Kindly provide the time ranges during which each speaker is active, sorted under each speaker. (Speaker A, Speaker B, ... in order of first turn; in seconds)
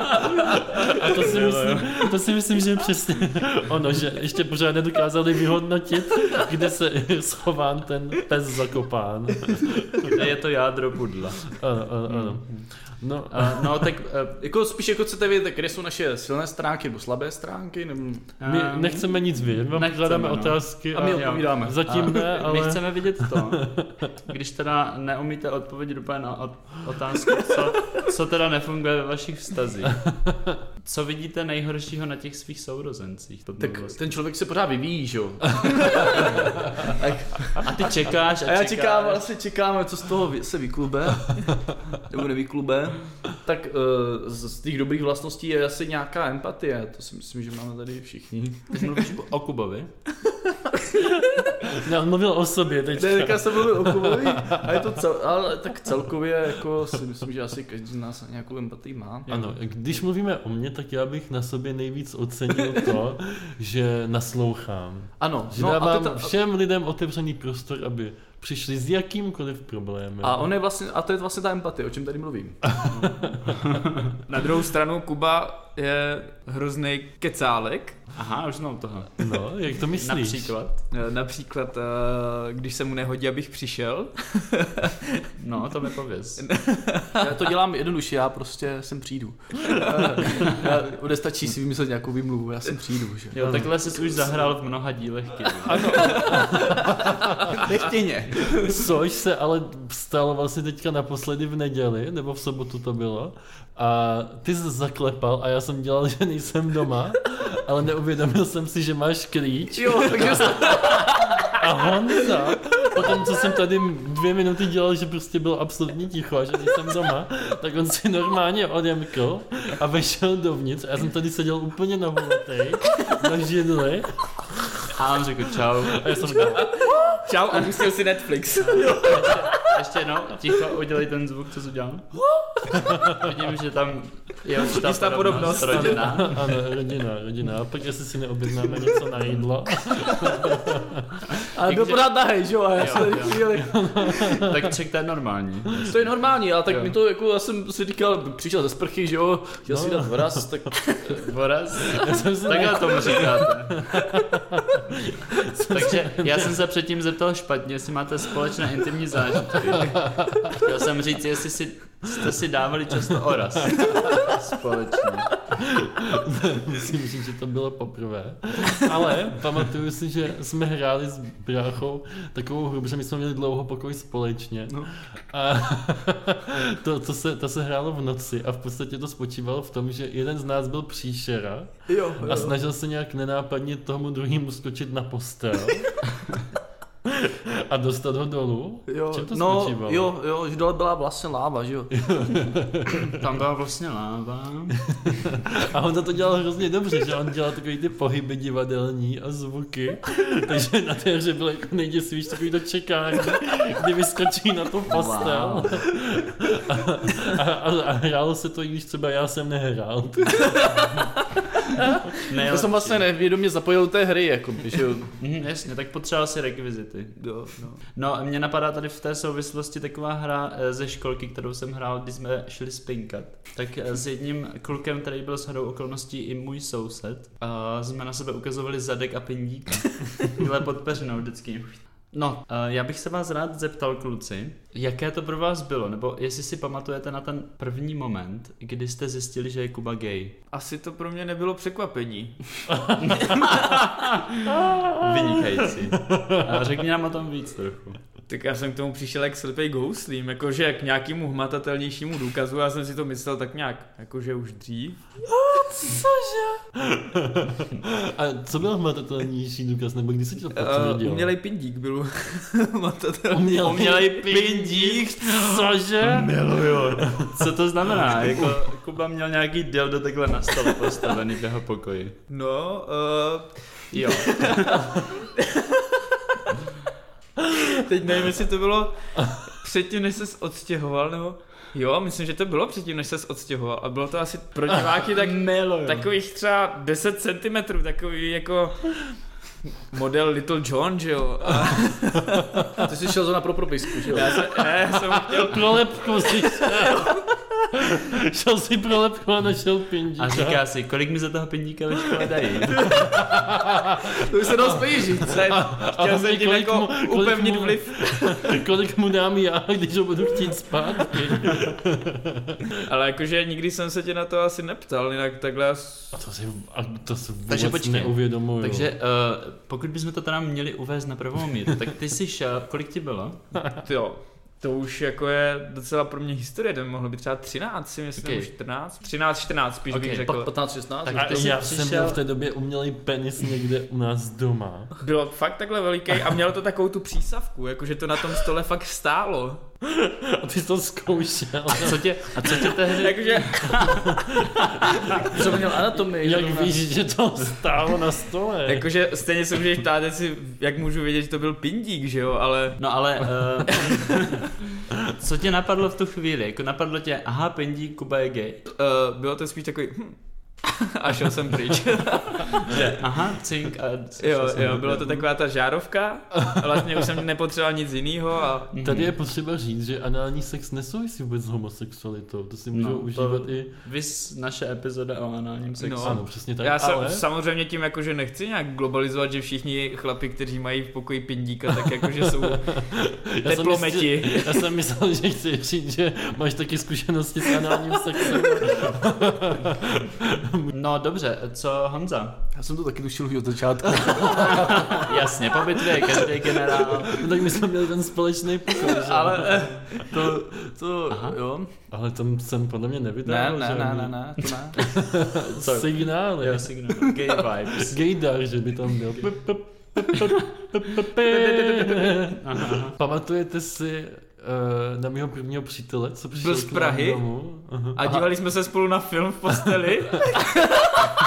Speaker A: 0.7-10.2, 11.5-13.7, 18.4-24.1, 51.7-54.8, 59.3-70.5, 72.9-73.5, 79.2-80.5, 93.4-93.7, 95.7-97.3, 98.6-124.7, 126.0-126.7, 135.6-141.2, 143.5-144.7, 149.7-150.7, 151.9-156.6, 160.1-160.5, 165.8-186.1, 187.1-190.1, 192.0-193.1, 195.6-210.7, 242.7-243.3, 244.7-245.1, 246.1-246.4, 255.4-261.3, 263.3-267.4, 294.9-300.6, 302.9-304.1, 305.4-312.6, 316.2-318.9, 331.1-334.9, 339.9-342.8, 345.3-345.6, 346.2-348.9, 368.8-373.7, 376.0-377.2, 382.4-390.7, 397.1-400.1, 401.9-406.8, 407.9-418.3
Speaker B: 1.2-1.9, 10.1-11.5, 12.1-12.7, 13.3-14.4, 18.4-30.1, 30.8-34.0, 37.6-39.3, 48.7-49.9, 72.9-73.9, 78.2-79.1, 79.9-80.8, 85.4-86.6, 93.3-96.3, 125.0-126.5, 128.6-132.1, 133.1-136.6, 141.7-142.1, 142.7-146.9, 151.1-154.0, 155.7-165.4, 193.2-195.3, 204.9-205.8, 212.3-213.1, 215.2-240.4, 243.0-248.0, 267.1-272.2, 273.9-274.8, 285.2-286.1, 300.2-303.0, 317.5-323.6, 328.2-328.5, 329.9-330.3, 331.1-332.2, 341.7-344.2, 352.8-358.6, 362.7-365.3, 368.7-369.1, 372.7-376.3, 390.7-392.4, 394.7-397.2, 401.1-401.4, 405.0-408.1, 412.4-413.0
Speaker C: 14.4-18.3, 20.9-22.1, 33.6-37.9, 38.5-49.0, 53.0-59.3, 65.2-66.3, 70.2-72.8, 87.2-93.7, 96.1-96.7, 97.5-98.8, 109.8-111.5, 141.5-144.1, 145.9-151.2, 181.9-182.5, 188.9-192.4, 212.4-215.2, 292.9-294.4, 304.1-305.6, 330.2-331.5, 345.2-346.8, 392.5-395.1, 395.9-397.2, 398.8-401.7, 403.2-404.8
Speaker D: 74.3-78.0, 80.9-84.7, 86.4-87.2, 95.8-96.4, 126.5-129.5, 134.6-136.3, 217.2-217.8, 240.5-242.4, 248.3-255.1, 260.6-267.1, 272.3-275.8, 277.6-289.2, 289.9-292.5, 294.1-297.1, 305.2-308.5, 312.9-316.2, 323.8-330.5, 335.0-339.6, 342.9-343.9, 348.7-352.8, 358.7-362.9, 364.2-368.7, 375.8-382.9, 383.4-384.7, 411.3-411.9, 416.4-420.7